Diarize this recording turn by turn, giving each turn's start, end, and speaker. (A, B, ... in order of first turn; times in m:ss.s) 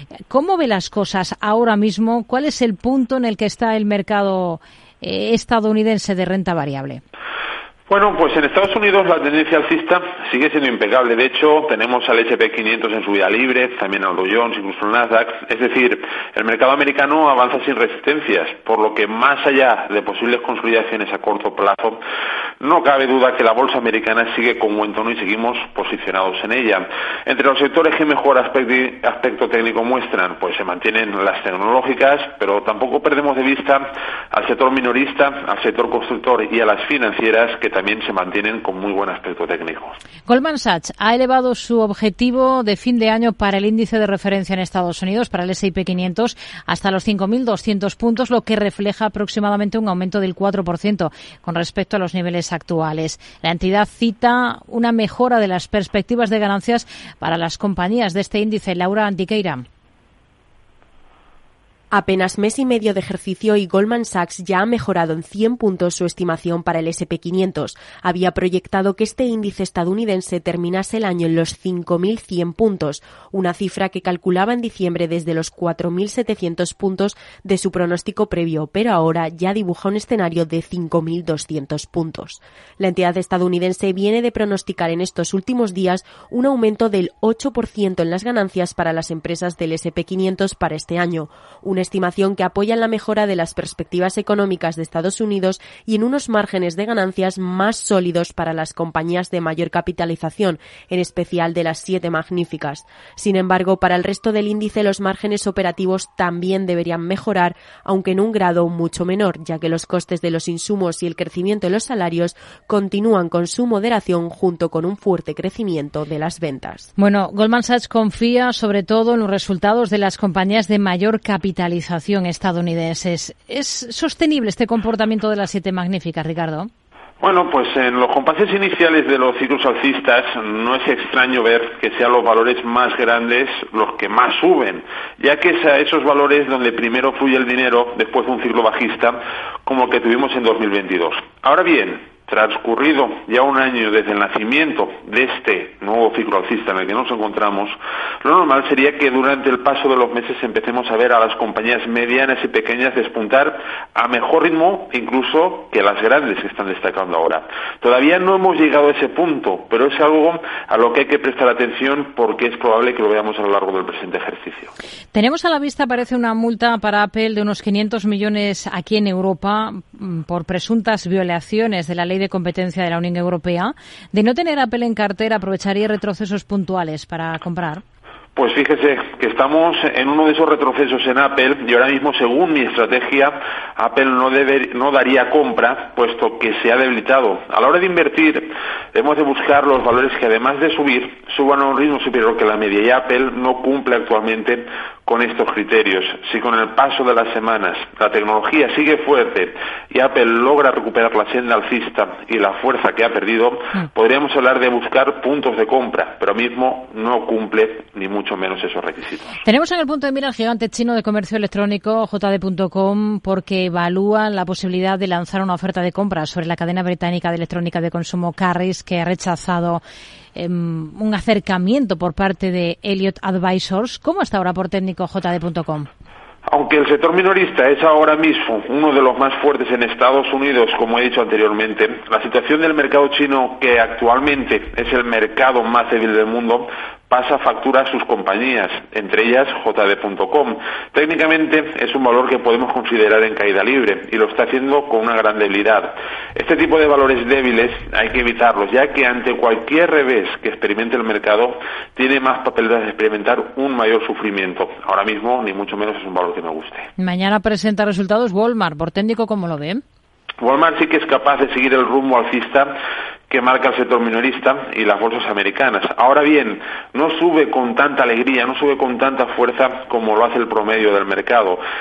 0:00.3-0:07.0 A
0:07.9-0:22.0 B
0:22.6-0:40.0 B
0:40.3-0:59.6 A
1:01.9-1:56.9 C
1:57.0-2:06.7 A
2:07.2-2:44.7 B
2:45.1-2:57.8 A
2:58.4-3:29.4 B
3:29.4-3:39.8 A
3:40.4-3:45.9 A
3:46.5-4:16.9 B
4:17.0-4:19.8 A
4:20.4-4:22.7 B
4:23.3-4:31.6 B